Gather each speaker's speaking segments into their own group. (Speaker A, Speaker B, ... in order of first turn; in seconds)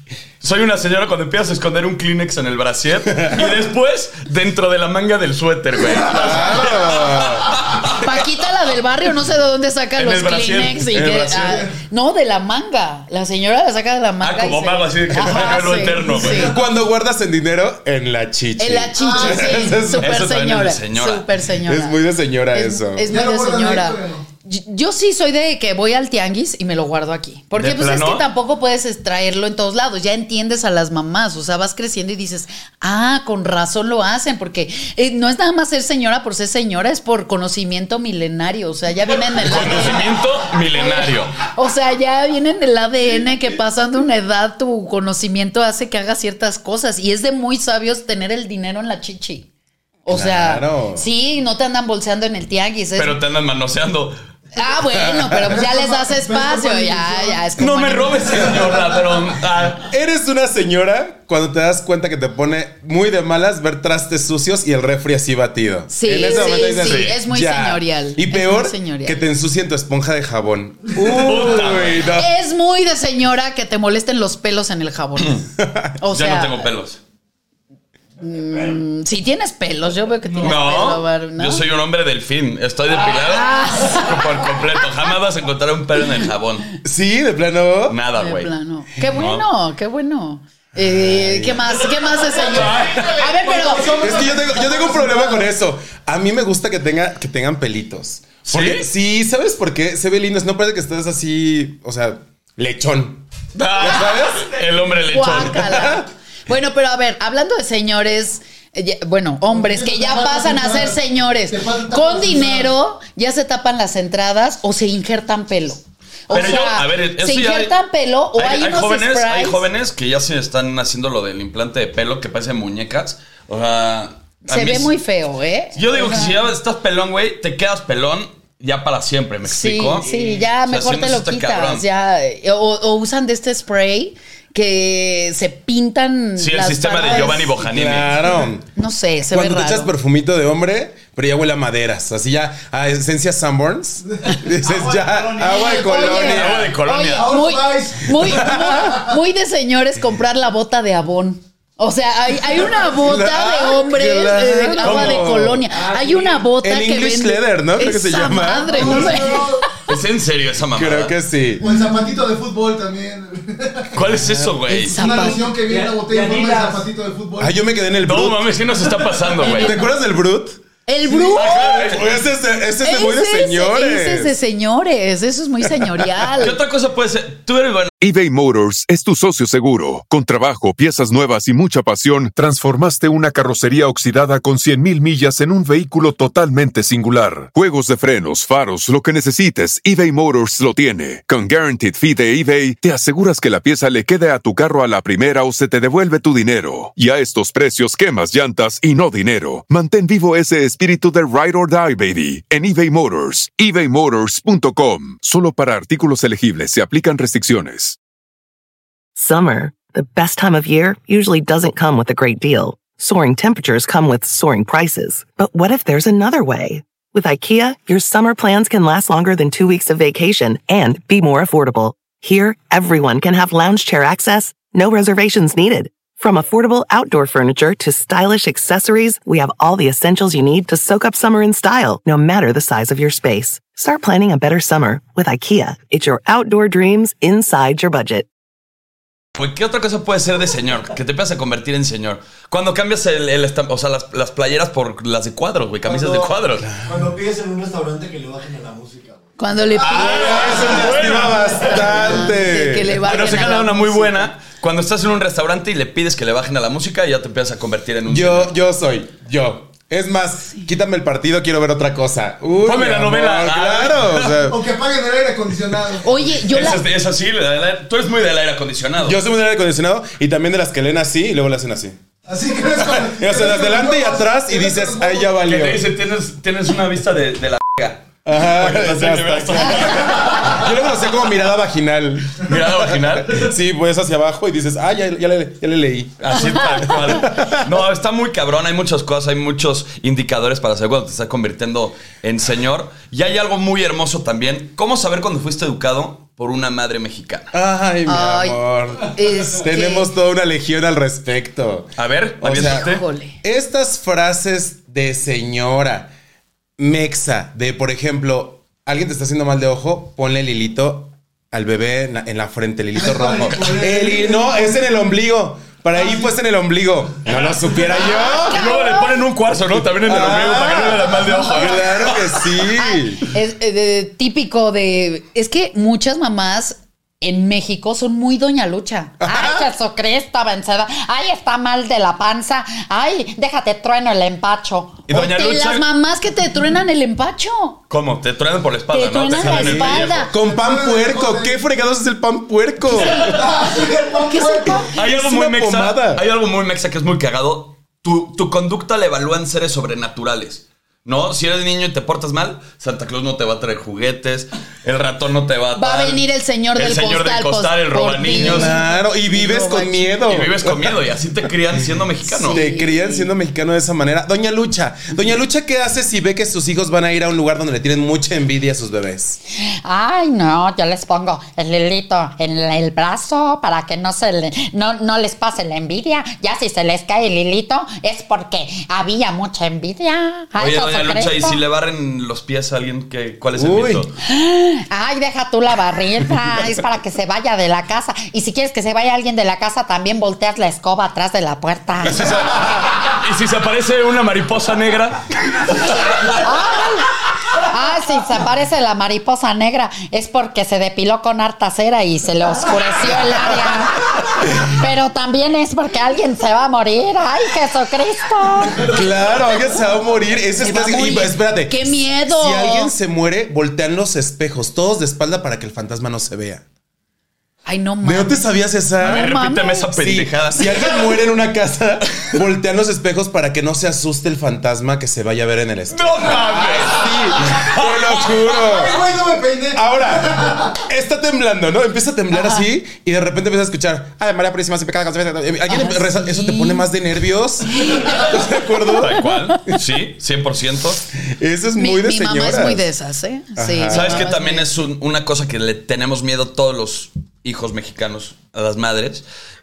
Speaker A: 0.4-8.1, 10.0-11.2, 14.2-16.6, 20.0-21.3, 27.5-28.3, 39.4-41.4, 53.0-54.2, 57.6-59.9, 66.5-67.2, 71.1-72.0, 76.1-77.0, 80.4-86.7, 87.9-88.5, 89.1-89.5, 92.5-93.1, 98.5-98.9, 103.5-105.6, 116.3-117.7, 118.3-124.9, 125.8-131.8, 136.4-138.2, 146.1-147.3, 154.8-155.3, 159.9-161.1, 164.0-165.0, 168.0-169.8, 171.4-172.1, 176.4-177.9, 239.4-246.7, 249.8-252.0, 253.0-258.5, 262.6-264.3, 266.4-269.2, 275.4-280.7, 282.4-283.5, 286.2-297.5, 302.0-303.0, 318.5-322.2, 335.1-335.8, 337.9-340.3, 344.9-356.2, 356.8-358.7, 360.3-362.6, 380.6-384.1, 392.0-396.3, 419.0-421.1, 425.9-428.4, 439.0-441.0, 443.9-449.2
Speaker B: 6.1-7.5, 10.9-11.6, 15.2-15.6, 16.3-20.2, 21.7-23.1, 50.1-51.1, 54.9-55.4, 59.8-72.3, 75.6-75.9, 86.8-88.0, 90.8-91.7, 94.0-103.3, 103.8-104.5, 105.2-106.1, 137.4-138.7, 139.3-146.7, 148.2-148.8, 152.8-155.6, 156.6-159.2, 160.8-161.7, 164.0-164.6, 167.4-170.6, 171.4-174.3, 175.7-176.3, 246.6-247.1, 249.8-253.0, 258.1-264.6, 269.0-272.0, 272.8-275.9, 278.2-287.7, 297.5-302.9, 303.4-306.1, 306.8-318.6, 320.0-323.2, 329.2-329.7, 339.3-343.3, 344.9-346.2, 358.3-361.0, 362.4-369.4, 383.6-384.1, 408.8-416.6, 418.0-419.3, 419.9-429.0, 429.7-439.3, 441.2-442.9, 443.6-444.3
Speaker C: 8.0-16.5, 18.6-22.0, 22.5-40.1, 40.8-49.5, 50.0-53.2, 54.6-58.5, 65.9-69.2, 72.2-75.5, 76.0-76.6, 78.2-81.6, 83.2-84.3, 88.2-94.1, 105.1-119.6, 124.5-126.4, 129.5-137.5, 138.8-139.9, 145.4-159.7, 164.7-165.4, 169.4-169.7, 170.9-172.0, 172.8-176.6, 249.4-254.3, 266.0-266.8, 298.1-300.1, 302.6-303.4, 318.3-319.2, 322.7-329.3, 335.1-337.8, 338.9-340.3, 343.0-343.4, 344.3-344.9, 355.8-360.1, 362.4-363.3, 410.6-412.9, 417.6-419.9, 432.3-432.6, 435.7-436.9, 437.8-438.2, 441.8-444.7
Speaker D: 16.2-16.5, 19.0-19.7, 23.1-24.2, 55.5-57.5, 58.3-58.6, 93.8-95.4, 109.5-112.8, 147.1-148.9, 158.7-159.6, 161.6-163.9, 164.9-167.5, 264.5-266.2, 272.3-275.3, 312.9-314.9, 316.0-316.3, 340.3-341.6, 343.3-344.9, 428.6-430.8
Speaker E: 93.3-94.5, 144.6-146.1, 155.7-156.5, 165.1-166.9, 245.9-246.3, 246.8-249.2
Speaker F: 178.0-208.0
Speaker G: 209.2-238.3
Speaker H: 329.2-335.0, 369.9-381.6, 384.9-392.2, 396.4-397.0, 397.7-403.9, 404.8-408.7